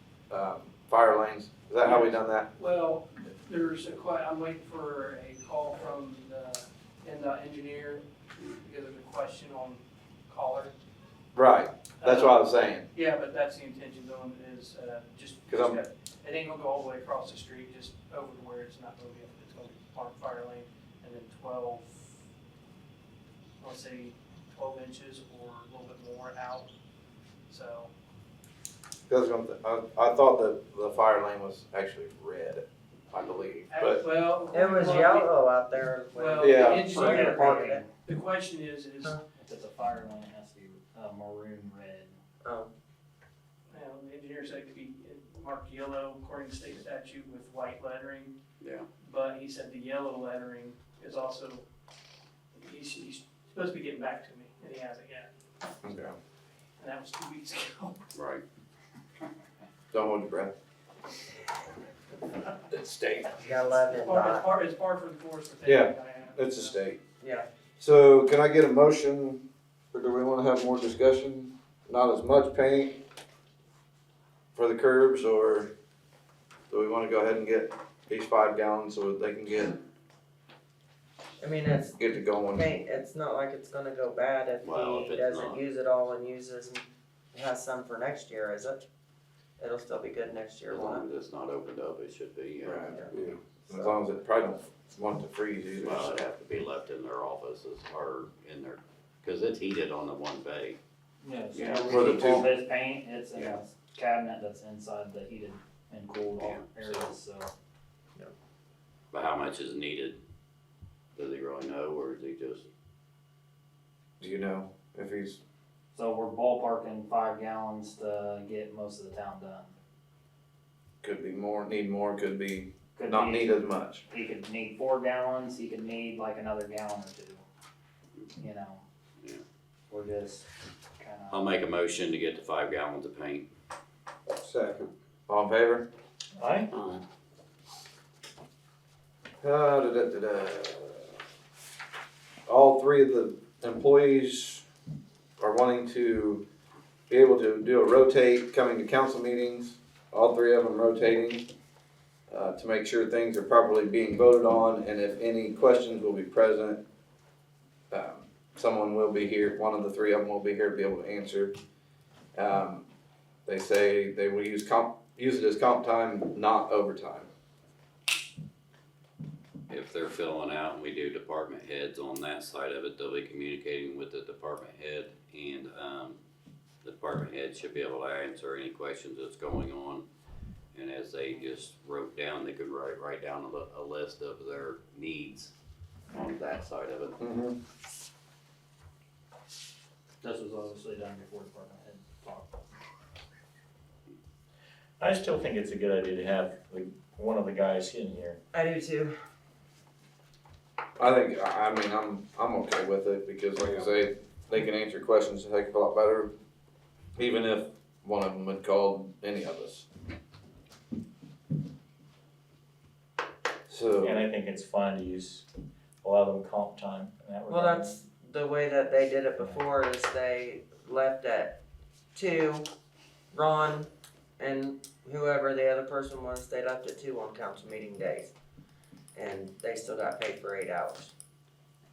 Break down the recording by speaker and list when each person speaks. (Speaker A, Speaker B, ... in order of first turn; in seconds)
Speaker A: 0.3-2.5, 11.3-12.9, 15.5-15.8, 29.1-34.0, 36.4-37.0, 55.8-56.1, 59.9-60.5, 62.7-63.4, 65.6-67.0, 67.8-69.4, 69.9-73.0, 74.5-75.7, 76.7-79.8, 82.0-82.7, 92.6-96.2, 101.8-102.5, 114.2-115.4, 121.0-124.0, 134.4-135.9, 139.4-141.1, 142.5-144.6, 145.4-146.4, 147.1-151.4, 152.3-156.8, 157.9-161.5, 162.3-162.9, 163.4-167.3, 187.2-187.6, 201.0-206.3, 207.2-209.8, 213.7-214.1
Speaker B: 1.8-10.7, 12.0-22.1, 23.6-26.7, 27.5-27.9, 33.7-35.4, 36.1-39.2, 43.7-48.3, 49.0-51.6, 52.5-55.3, 56.8-58.1, 63.9-66.8
Speaker C: 34.5-37.8, 42.4-42.7, 63.4-64.5, 67.2-67.5, 81.4-82.0, 82.5-88.8, 89.6-91.0, 93.7-93.9, 198.5-199.1, 217.5-221.6, 222.1-222.7, 223.3-228.3, 229.1-231.1
Speaker D: 36.9-37.9, 39.3-42.1, 101.2-107.5, 115.9-119.7, 123.0-127.4, 128.4-128.8, 129.9-130.4, 131.0-131.5, 190.2-192.6
Speaker E: 48.6-48.9, 58.1-58.4, 84.6-85.6, 90.7-93.0, 95.8-100.8, 101.5-102.2, 106.4-107.1, 109.1-110.2, 111.2-112.7, 131.3-133.4, 136.7-137.0, 169.7-176.2, 176.8-180.0, 180.7-185.5, 186.1-187.2
Speaker F: 136.3-136.7, 195.0-198.4, 214.0-215.4, 216.0-218.0